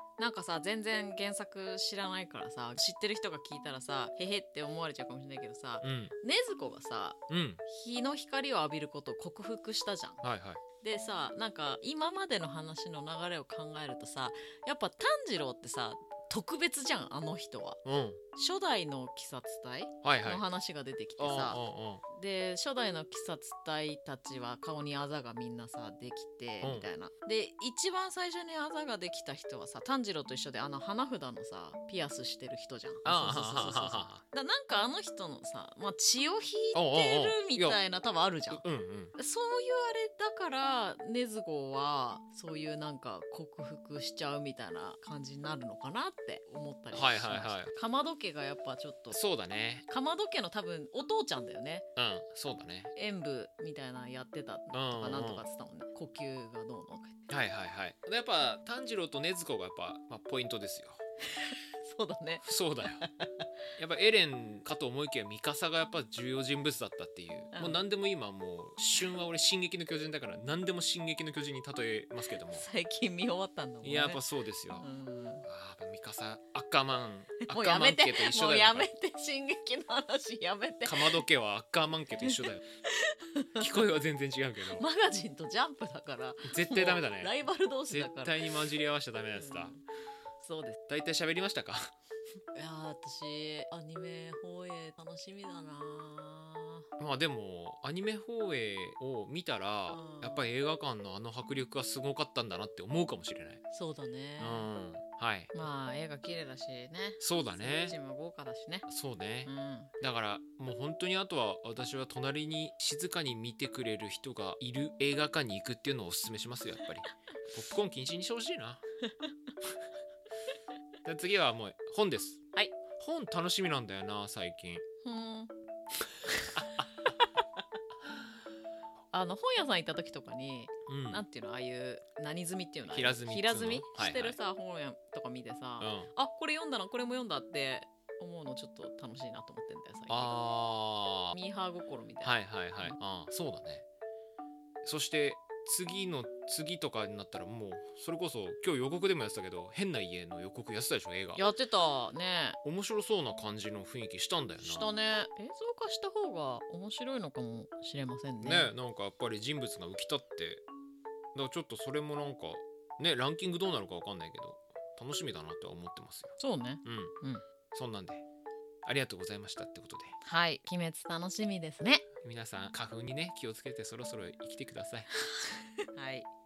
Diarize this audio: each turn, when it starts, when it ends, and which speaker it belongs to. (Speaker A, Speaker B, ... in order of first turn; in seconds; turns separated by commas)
Speaker A: 0.2-10.2, Speaker B: 5.8-6.1, Speaker B: 7.3-7.6, Speaker B: 10.2-10.6, Speaker A: 10.8-17.8, Speaker B: 17.8-18.2, Speaker A: 18.3-21.6, Speaker B: 20.0-20.4, Speaker B: 21.2-22.0, Speaker A: 22.1-38.6, Speaker B: 26.6-26.9, Speaker B: 33.0-34.2, Speaker B: 36.7-37.8, Speaker B: 38.5-39.1, Speaker A: 39.1-49.2, Speaker B: 46.9-47.7, Speaker B: 49.1-49.9, Speaker A: 49.9-51.9, Speaker B: 52.0-52.9, Speaker A: 52.9-57.2, Speaker B: 54.7-55.4, Speaker B: 57.3-61.0, Speaker A: 61.3-62.4, Speaker B: 62.4-63.1, Speaker A: 63.0-63.5, Speaker B: 63.8-72.7, Speaker A: 67.5-67.8, Speaker A: 72.5-74.2, Speaker B: 73.8-74.8, Speaker A: 74.8-75.5, Speaker B: 75.4-78.9, Speaker A: 77.4-81.2, Speaker B: 80.8-82.6, Speaker A: 82.9-83.7, Speaker B: 83.5-84.8, Speaker A: 84.7-88.5, Speaker B: 86.4-87.3, Speaker B: 87.9-89.7, Speaker A: 89.3-89.8, Speaker A: 90.4-90.8, Speaker B: 90.9-91.9, Speaker A: 92.5-96.8, Speaker B: 97.0-103.6, Speaker A: 99.9-100.5, Speaker A: 103.7-104.7, Speaker B: 104.4-105.5, Speaker A: 105.5-108.9, Speaker B: 107.2-108.0, Speaker B: 108.9-118.8, Speaker A: 109.5-109.9, Speaker B: 121.0-122.4, Speaker B: 122.9-124.8, Speaker A: 125.0-125.5, Speaker A: 126.3-127.3, Speaker B: 126.5-126.9, Speaker A: 129.1-140.3, Speaker B: 130.9-131.2, Speaker B: 132.9-134.4, Speaker B: 135.8-136.1, Speaker B: 140.1-141.3, Speaker A: 141.3-142.9, Speaker B: 142.2-143.8, Speaker B: 144.8-151.4, Speaker A: 151.3-152.6, Speaker B: 152.6-155.0, Speaker A: 154.6-158.7, Speaker B: 158.4-160.6, Speaker B: 161.3-167.1, Speaker A: 166.4-167.4, Speaker B: 167.7-168.2, Speaker B: 168.8-170.1, Speaker A: 170.2-172.0, Speaker B: 172.2-175.1, Speaker A: 175.2-176.3